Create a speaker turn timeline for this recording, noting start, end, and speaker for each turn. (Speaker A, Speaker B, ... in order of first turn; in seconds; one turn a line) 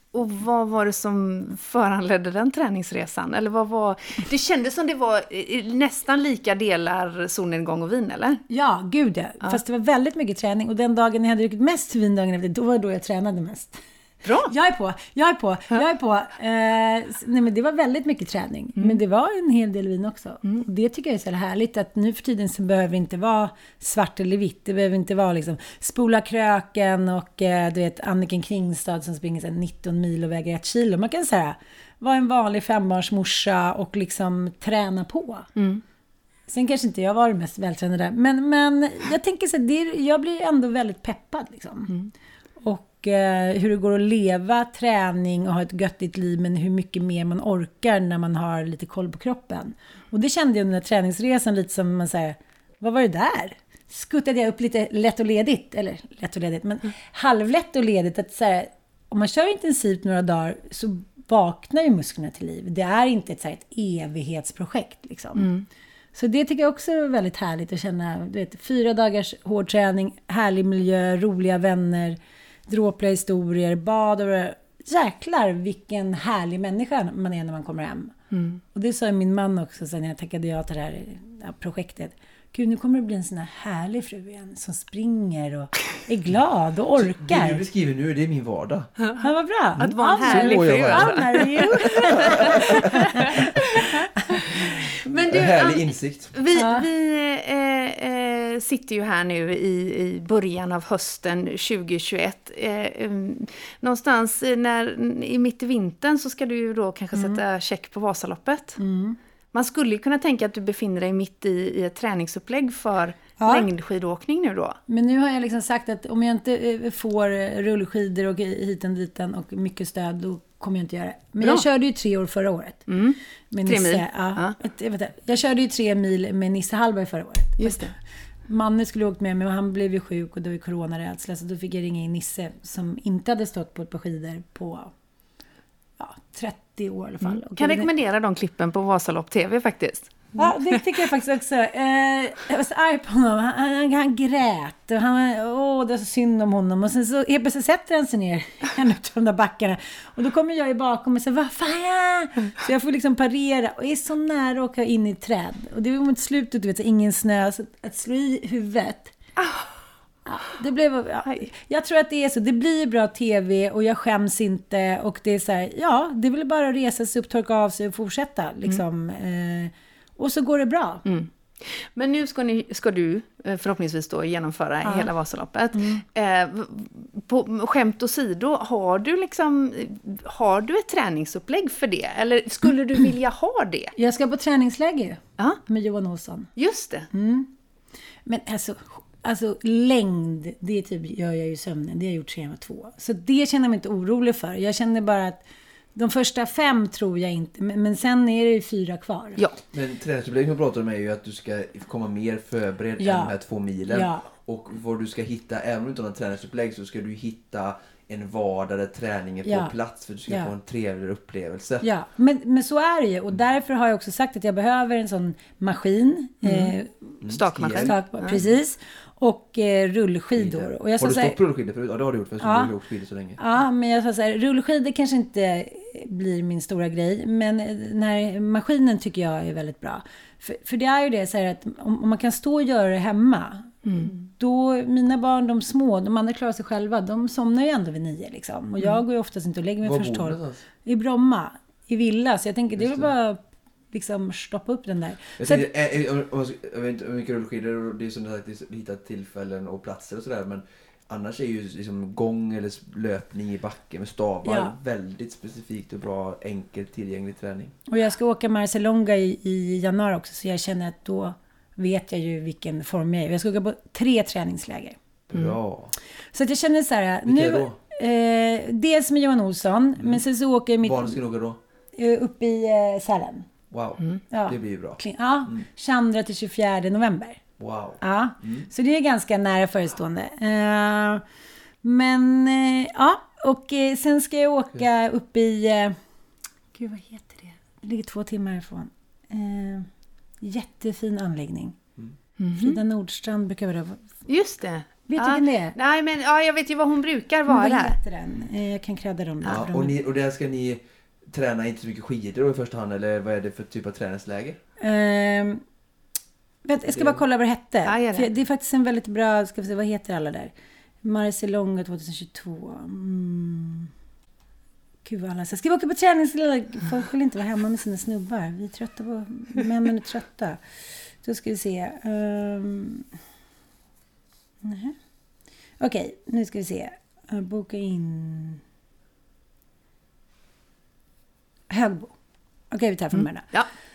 Speaker A: 0.1-8.4
Speaker B: 8.5-13.8
Speaker A: 14.2-14.5
Speaker B: 14.4-35.5
Speaker A: 35.6-35.8
Speaker B: 36.5-41.9
Speaker B: 42.6-65.5
Speaker A: 65.4-65.7
Speaker B: 66.2-78.1
Speaker A: 78.3-78.6
Speaker B: 78.7-87.6
Speaker C: 87.0-88.9
Speaker B: 89.2-94.8
Speaker A: 89.8-93.4
Speaker C: 90.2-91.2
Speaker C: 91.8-93.4
Speaker C: 95.1-96.3
Speaker A: 95.1-108.8
Speaker B: 96.5-96.9
Speaker B: 107.2-107.4
Speaker B: 108.8-109.2
Speaker A: 109.5-114.8
Speaker B: 113.4-113.7
Speaker B: 114.9-122.9
Speaker A: 122.9-124.6
Speaker B: 123.5-127.9
Speaker A: 127.6-127.9
Speaker B: 128.5-134.9
Speaker B: 136.0-137.9
Speaker A: 137.4-140.8
Speaker B: 140.4-159.1
Speaker A: 159.4-159.7
Speaker B: 160.3-171.0
Speaker A: 171.1-183.9
Speaker B: 174.8-175.1
Speaker B: 175.7-176.0
Speaker B: 184.0-186.5
Speaker A: 186.6-187.1
Speaker B: 187.1-187.5
Speaker B: 188.3-195.4
Speaker B: 195.9-199.4
Speaker C: 199.7-211.8
Speaker B: 203.0-203.4
Speaker B: 203.9-204.3
Speaker B: 209.4-209.7
Speaker B: 210.3-210.5
Speaker B: 211.8-216.9
Speaker A: 216.4-216.7
Speaker C: 217.2-217.9
Speaker A: 217.3-218.4
Speaker B: 217.8-221.4
Speaker C: 220.4-223.4
Speaker B: 222.4-222.7
Speaker B: 223.4-243.4
Speaker A: 233.8-234.1
Speaker C: 239.8-240.6
Speaker C: 242.8-243.1
Speaker B: 243.9-245.7
Speaker C: 245.4-257.7
Speaker B: 254.4-254.7
Speaker B: 257.9-265.0
Speaker C: 265.3-265.9
Speaker B: 266.3-271.2
Speaker C: 267.3-267.8
Speaker C: 270.8-271.6
Speaker B: 271.9-273.5
Speaker C: 273.7-275.6
Speaker B: 274.3-277.4
Speaker C: 277.6-278.7
Speaker B: 278.0-281.2
Speaker B: 281.8-286.0
Speaker B: 286.8-289.9
Speaker B: 290.4-291.8
Speaker A: 292.4-292.8
Speaker B: 292.6-294.1
Speaker A: 294.3-297.9
Speaker B: 295.1-295.8
Speaker B: 297.5-300.0
Speaker C: 299.5-304.6
Speaker B: 304.8-305.6
Speaker B: 306.6-313.9
Speaker C: 306.9-307.2
Speaker A: 307.9-308.3
Speaker B: 315.1-320.6
Speaker B: 321.2-323.1
Speaker B: 324.6-324.9
Speaker B: 325.8-328.6
Speaker B: 331.7-332.1
Speaker B: 332.7-333.5